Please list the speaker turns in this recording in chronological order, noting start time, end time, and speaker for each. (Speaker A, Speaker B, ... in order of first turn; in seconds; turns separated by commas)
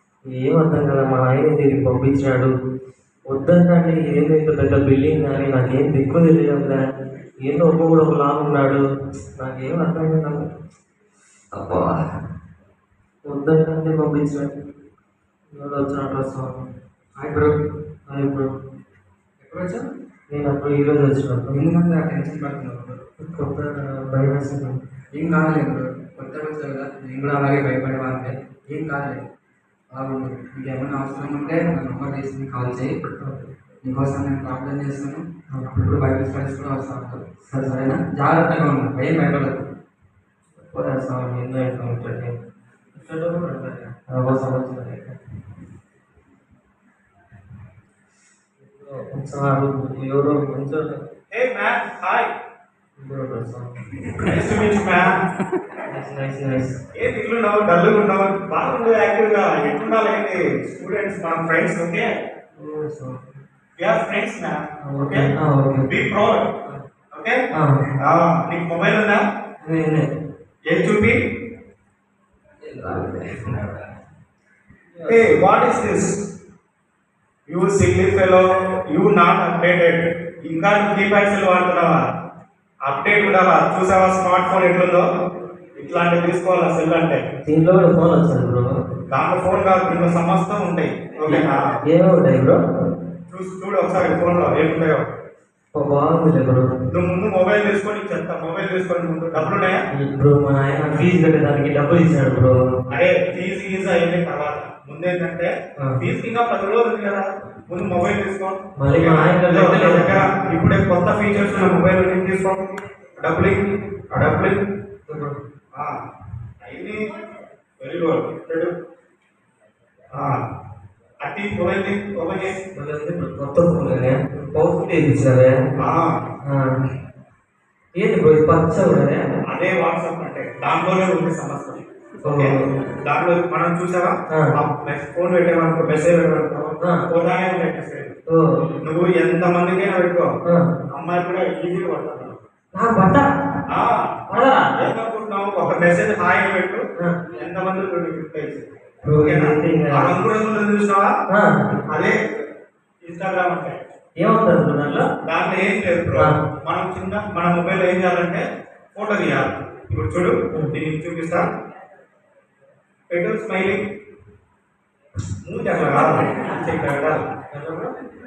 Speaker A: 0.3-2.5, Speaker A: 3.3-6.8, Speaker A: 7.4-8.8, Speaker A: 9.3-10.4, Speaker A: 11.6-12.0, Speaker A: 13.2-14.5, Speaker A: 15.5-16.6, Speaker B: 17.2-17.6, Speaker A: 18.1-18.5, Speaker B: 19.4-19.8, Speaker A: 20.3-21.6, Speaker B: 21.5-23.0, Speaker A: 23.2-24.8, Speaker B: 25.1-29.2, Speaker B: 29.9-32.9, Speaker A: 33.1-33.5, Speaker B: 33.8-39.6, Speaker A: 35.5-35.8, Speaker A: 37.5-37.9, Speaker A: 40.6-42.3, Speaker A: 42.9-45.2, Speaker A: 48.6-51.0, Speaker C: 51.3-52.3, Speaker A: 53.0-53.7, Speaker C: 54.2-55.1, Speaker A: 55.9-56.8, Speaker C: 56.9-62.1, Speaker A: 62.5-63.2, Speaker C: 63.8-65.3, Speaker A: 64.8-65.9, Speaker C: 65.9-66.5, Speaker C: 67.1-67.4, Speaker A: 67.5-67.8, Speaker C: 68.0-69.2, Speaker A: 69.6-70.0, Speaker C: 70.7-71.2, Speaker A: 72.7-73.3, Speaker B: 72.7-73.1, Speaker A: 75.0-75.2, Speaker C: 75.1-76.1, Speaker C: 77.5-82.0, Speaker C: 82.8-85.0, Speaker C: 85.8-87.2, Speaker A: 87.4-88.7, Speaker C: 89.1-91.6, Speaker A: 91.3-92.6, Speaker C: 93.3-95.1, Speaker A: 95.7-96.7, Speaker C: 96.9-99.8, Speaker A: 99.9-102.6, Speaker C: 102.9-112.6, Speaker A: 108.8-110.2, Speaker C: 113.2-113.6, Speaker C: 114.1-114.6, Speaker A: 115.1-115.4, Speaker C: 116.6-117.0, Speaker C: 117.8-118.7, Speaker C: 120.1-120.4, Speaker C: 121.2-122.6, Speaker A: 122.7-125.6, Speaker C: 125.8-126.2, Speaker A: 127.9-129.2, Speaker C: 129.5-138.1, Speaker A: 132.2-132.6, Speaker A: 138.3-138.7, Speaker C: 138.8-140.3, Speaker C: 140.9-142.4, Speaker A: 142.7-143.2, Speaker C: 143.7-144.1, Speaker A: 144.3-144.8, Speaker C: 144.8-151.1, Speaker A: 149.0-150.2, Speaker C: 153.0-153.8, Speaker A: 154.2-155.1, Speaker C: 155.2-158.4, Speaker C: 158.9-161.5, Speaker C: 163.1-163.8, Speaker C: 165.4-167.2, Speaker A: 167.5-167.9